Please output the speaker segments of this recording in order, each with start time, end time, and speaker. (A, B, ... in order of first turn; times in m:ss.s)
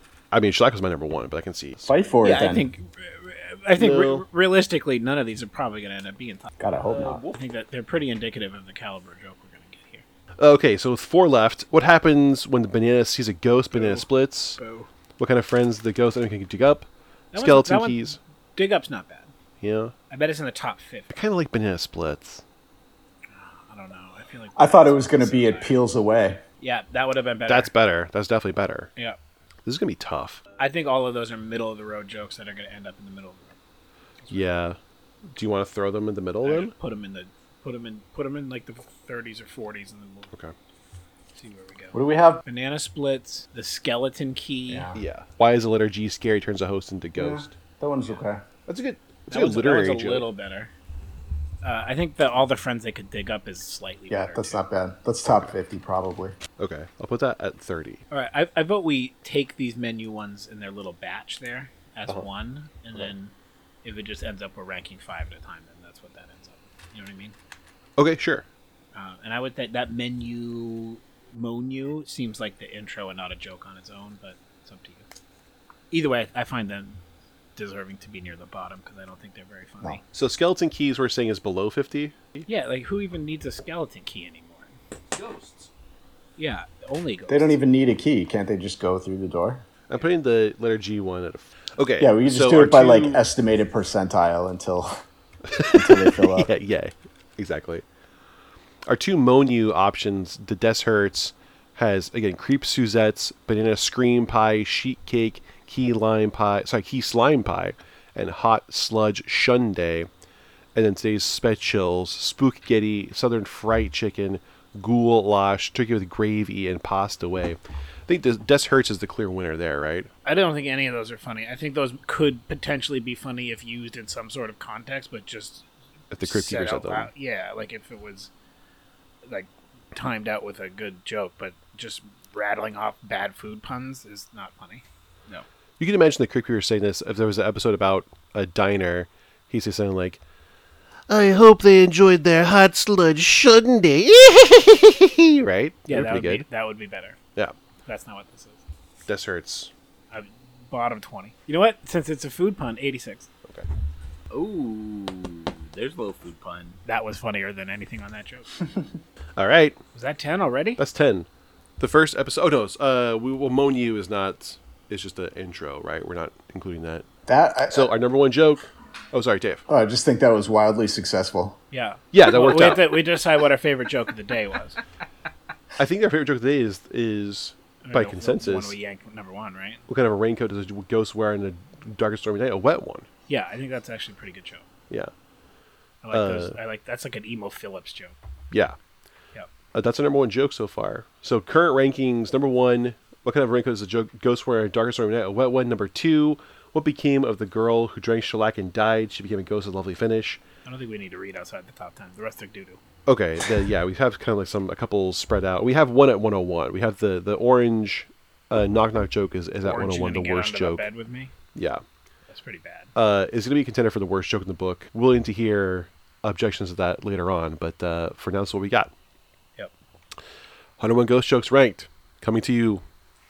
0:00.3-0:01.9 A
0:01.8-0:02.7 B
0:02.2-0:06.5 C
0:03.8-0:04.2 A
0:06.6-0:07.2 B
0:06.8-0:07.4 A
0:07.3-0:10.0 C
0:10.4-0:14.6 A
0:13.7-0:14.9 C
0:15.2-0:18.2 A
0:17.3-0:19.3 C
0:19.6-0:19.9 A
0:20.1-0:21.1 C
0:21.1-0:22.4 A
0:23.3-0:25.8 C
0:24.6-0:26.4 B
0:26.6-0:27.7 C
0:27.5-0:28.9 A
0:29.6-0:30.4 A
0:30.6-0:33.6 C
0:34.3-0:36.7 A
0:36.4-0:40.3 C
0:41.3-0:44.9 C
0:41.9-0:42.4 B
0:44.7-0:45.0 B
0:44.9-0:47.6 A
0:47.2-0:48.4 B
0:48.7-0:50.3 A
0:49.3-0:50.7 C
0:51.6-0:54.6 C
0:54.1-0:56.4 B
0:55.2-0:55.5 A
0:56.6-0:58.0 A
0:58.1-1:07.3 C
1:08.0-1:08.4 A
1:08.9-1:15.0 C
1:15.9-1:17.0 C
1:17.6-1:20.0 C
1:20.1-1:22.5 A
1:22.5-1:24.8 C
1:25.2-1:25.7 A
1:26.4-1:27.6 C
1:27.3-1:29.6 B
1:29.9-1:33.2 A
1:32.0-1:35.0 B
1:35.5-1:37.8 A
1:35.7-1:36.5 B
1:38.8-1:50.1 A
1:50.7-2:00.1 A
2:00.2-2:05.7 C
2:06.1-2:07.1 A
2:06.2-2:08.3 C
2:09.2-2:14.8 C
2:15.8-2:20.2 A
2:21.1-2:26.4 A
2:25.9-2:27.2 C
2:27.8-2:28.6 C
2:29.1-2:29.7 A
2:30.1-2:33.3 C
2:34.3-2:36.8 D
2:36.8-2:38.6 C
2:39.4-2:39.8 A
2:39.9-2:40.8 C
2:40.8-2:41.3 A
2:41.8-2:47.0 A
2:47.3-2:47.9 B
2:47.7-2:49.6 A
2:49.7-2:51.6 B
2:51.7-2:54.8 C
2:52.1-2:53.0 A
2:55.8-2:58.8 A
2:57.8-2:59.8 C
2:59.9-3:03.1 A
3:03.3-3:04.6 C
3:06.0-3:08.1 C
3:06.1-3:06.6 A
3:08.5-3:08.8 A
3:09.7-3:20.4 A
3:20.6-3:22.8 C
3:23.1-3:30.9 A
3:29.6-3:31.3 C
3:31.5-3:31.8 A
3:32.3-3:32.9 C
3:32.9-3:38.9 A
3:40.8-3:42.8 A